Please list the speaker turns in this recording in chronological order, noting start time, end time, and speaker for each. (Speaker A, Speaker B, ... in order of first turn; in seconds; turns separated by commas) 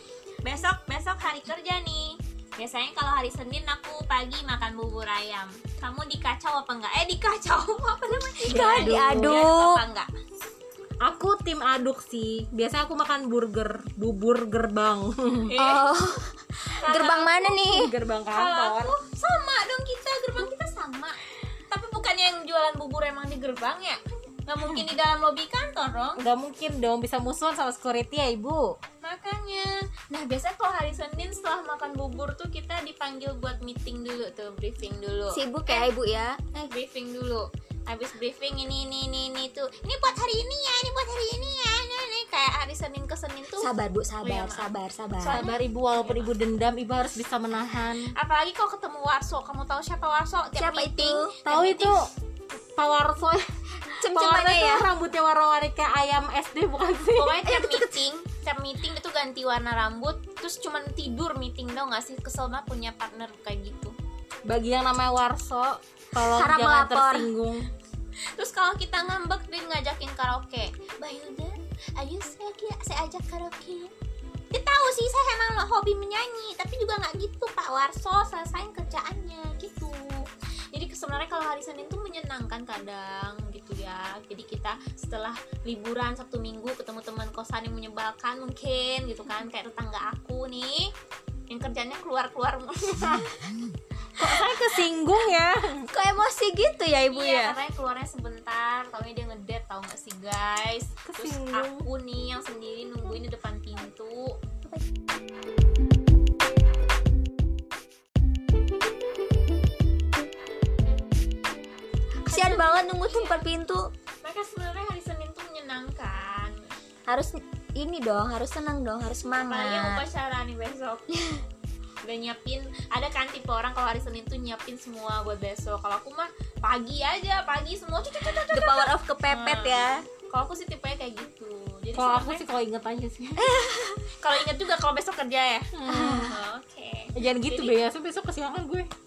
Speaker A: 0.4-10.1, Speaker B: 8.5-9.8, Speaker C: 8.5-9.4, Speaker C: 11.0-15.5, Speaker A: 15.5-15.9, Speaker B: 15.5-17.9, Speaker A: 16.7-17.6, Speaker C: 17.7-19.0, Speaker A: 18.3-21.2, Speaker A: 21.7-26.2, Speaker C: 26.2-28.8, Speaker A: 29.0-35.9, Speaker B: 35.3-36.7, Speaker A: 36.7-43.7, Speaker B: 43.6-45.4, Speaker A: 44.2-46.3, Speaker C: 45.2-48.1, Speaker A: 48.1-52.0, Speaker B: 50.6-51.4, Speaker C: 51.5-52.1, Speaker C: 52.8-53.4, Speaker B: 53.9-54.9, Speaker C: 54.1-57.5, Speaker A: 57.1-64.0, Speaker B: 57.5-58.0, Speaker C: 64.5-67.7, Speaker B: 66.2-67.3, Speaker A: 68.4-73.9, Speaker A: 74.5-90.9, Speaker A: 91.5-93.3, Speaker C: 93.0-93.2, Speaker C: 94.2-95.9, Speaker A: 94.2-94.6, Speaker B: 95.9-97.6, Speaker A: 97.1-104.4, Speaker C: 101.1-101.9, Speaker B: 112.3-113.9, Speaker A: 112.3-113.5, Speaker A: 114.2-116.7, Speaker B: 117.1-120.0, Speaker A: 119.4-121.1, Speaker A: 122.0-132.5, Speaker B: 128.5-130.0, Speaker C: 131.9-133.5, Speaker B: 133.4-134.0, Speaker A: 134.2-135.7, Speaker C: 135.7-136.4, Speaker B: 135.9-136.4, Speaker A: 136.3-137.8, Speaker C: 137.2-138.9